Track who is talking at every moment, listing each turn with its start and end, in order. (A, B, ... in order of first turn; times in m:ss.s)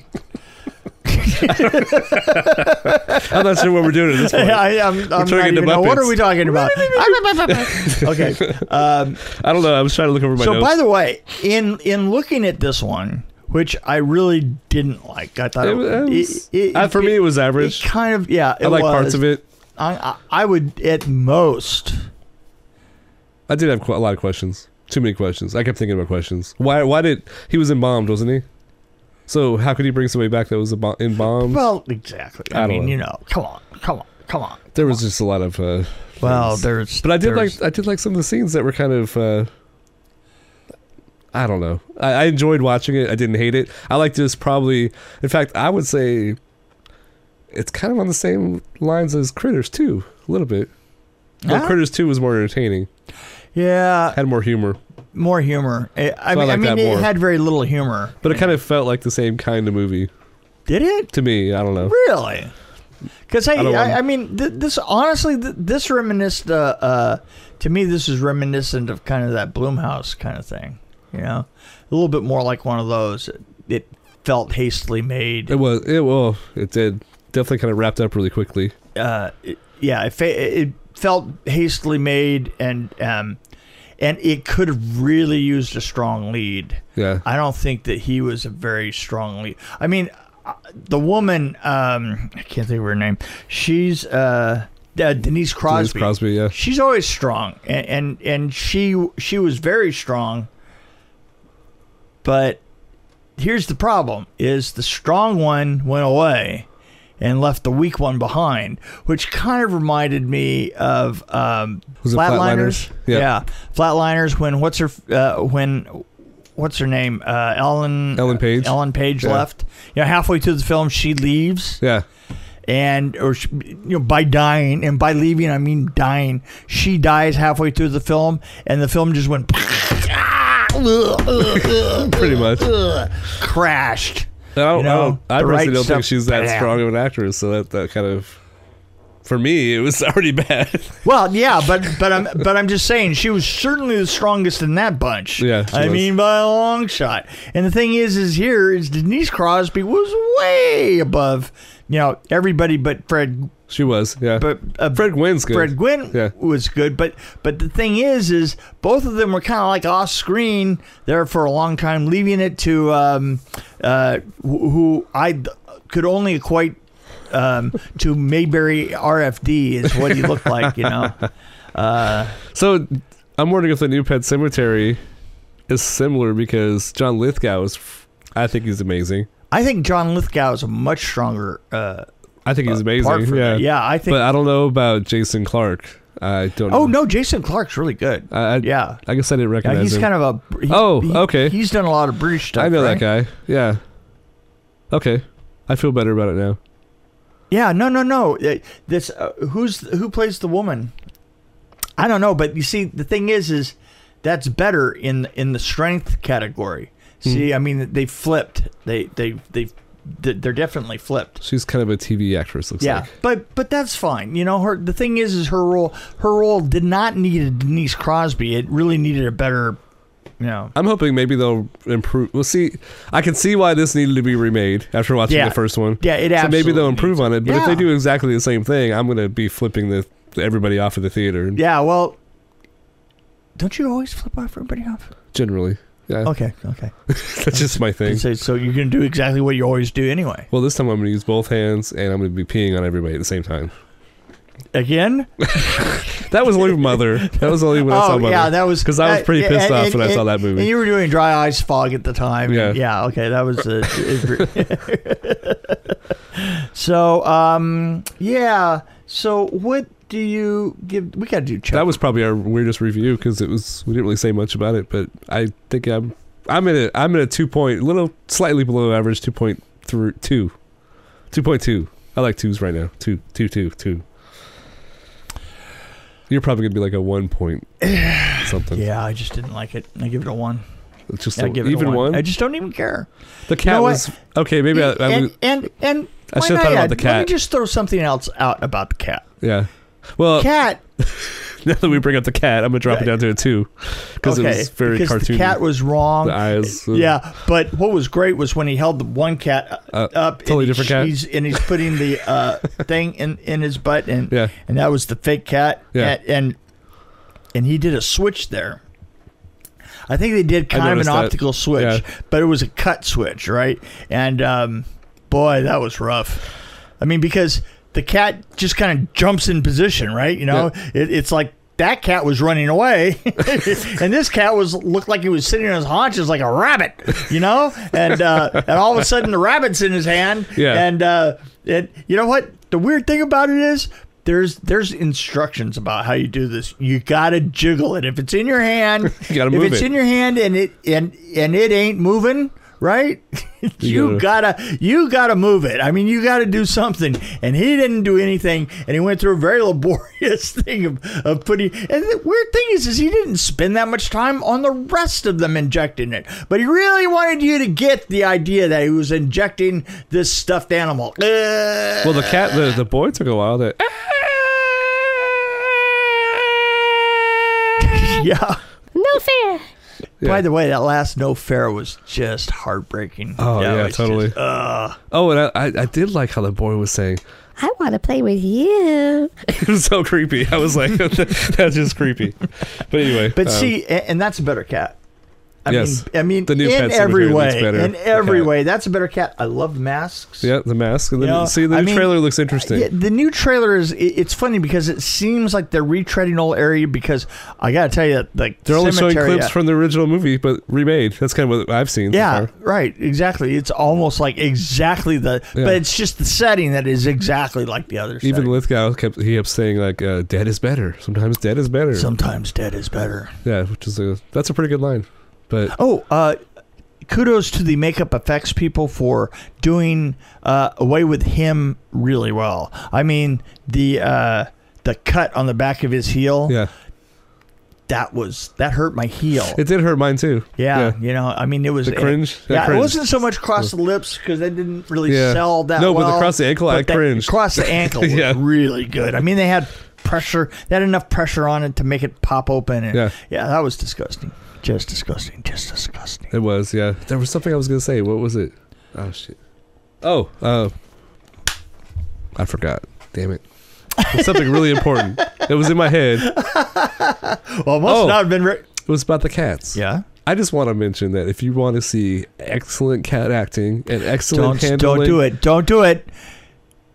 0:01.1-0:03.6 A
0:01.5-0:08.6 B
0:04.2-0:09.3 A
0:09.2-0:10.7 B
0:10.4-0:22.1 A
0:15.6-0:17.9 B
0:18.6-0:19.4 B
0:23.5-0:28.4 B
0:29.3-0:31.6 B
0:31.5-0:35.0 A
0:32.5-0:33.0 B
0:34.7-0:39.5 B
0:36.2-0:37.6 A
0:41.3-0:46.4 B
0:47.5-0:50.7 B
0:51.4-0:51.8 A
0:51.5-0:52.9 B
0:53.6-0:54.2 A
0:54.1-0:54.8 B
0:55.1-0:58.5 A
0:56.3-0:57.1 B
0:58.2-1:00.1 B
1:00.7-1:01.1 A
1:01.1-1:01.9 B
1:01.8-1:02.5 A
1:03.3-1:15.5 A
1:03.6-1:04.0 B
1:15.5-1:18.7 B
1:19.0-1:23.4 A
1:24.0-1:40.5 A
1:27.0-1:27.2 B
1:35.7-1:36.5 B
1:42.2-1:42.6 A
1:43.4-1:46.7 A
1:47.2-2:01.8 A
1:52.0-1:53.3 B
1:58.2-1:59.4 B
2:02.7-2:16.8 A
2:11.6-2:12.7 B
2:14.6-2:18.4 B
2:19.2-2:21.0 B
2:21.0-2:33.5 A
2:25.4-2:26.1 B
2:33.7-2:36.3 B
2:34.4-2:52.4 A
2:52.5-2:55.0 B
2:55.7-2:59.3 B
2:59.5-3:02.1 A
3:02.4-3:07.0 B
3:02.6-3:04.2 A
3:06.7-3:09.0 A
3:08.3-3:10.1 B
3:09.6-3:13.0 A
3:10.7-3:11.6 B
3:12.6-3:13.8 B
3:14.9-3:16.6 B
3:17.5-3:20.9 A
3:22.0-3:31.4 A
3:31.4-3:33.1 B
3:32.8-3:39.8 A
3:40.4-3:40.7 A
3:40.8-3:51.6 B
3:45.3-3:47.9 A
3:51.6-3:52.2 A
3:53.6-3:55.1 A
3:55.3-3:56.3 B
3:56.2-4:00.5 A
3:57.1-3:58.2 B
4:00.5-4:03.7 B
4:04.7-4:06.3 A
4:06.3-4:10.7 B
4:06.9-4:22.0 A
4:12.5-4:12.8 B
4:21.7-4:30.6 B
4:31.3-4:34.0 B
4:36.3-4:38.8 B
4:37.8-4:40.6 A
4:41.1-4:42.2 B
4:41.4-4:43.1 A
4:43.5-4:45.3 B
4:43.6-4:44.1 A
4:44.7-4:49.3 A
4:46.3-4:47.3 B
4:49.4-4:55.6 B
4:50.4-4:50.8 A
4:54.2-5:06.6 A
4:56.2-4:57.1 B
4:59.9-5:01.6 B
5:07.5-5:08.8 A
5:10.1-6:02.6 A
5:10.7-5:12.0 B
5:30.6-5:30.8 B
5:39.1-5:39.9 B
5:43.8-5:44.2 B
6:02.0-6:06.6 B
6:07.8-6:08.6 A
6:08.9-6:09.7 C
6:10.2-6:15.0 A
6:13.4-6:14.4 B
6:15.1-6:17.2 B
6:17.6-6:19.4 C
6:19.5-6:23.7 B
6:23.3-6:25.0 A
6:25.6-6:30.5 A
6:25.7-6:28.5 B
6:30.4-6:32.9 B
6:31.2-6:39.5 A
6:38.6-6:42.5 B
6:42.1-6:48.6 A
6:48.2-6:52.1 B
6:51.9-6:53.4 A
6:53.4-6:55.7 B
6:55.7-6:56.4 A
6:57.0-7:06.6 A
7:07.9-7:09.6 A
7:09.6-7:11.0 B
7:10.6-7:26.3 A
7:11.8-7:13.0 B
7:15.1-7:18.4 B
7:26.3-7:29.4 B
7:30.0-7:30.7 B
7:32.4-7:36.3 B
7:34.0-7:35.5 A
7:36.2-7:38.6 A
7:37.9-7:45.2 B
7:39.7-7:40.0 A
7:44.3-7:46.1 A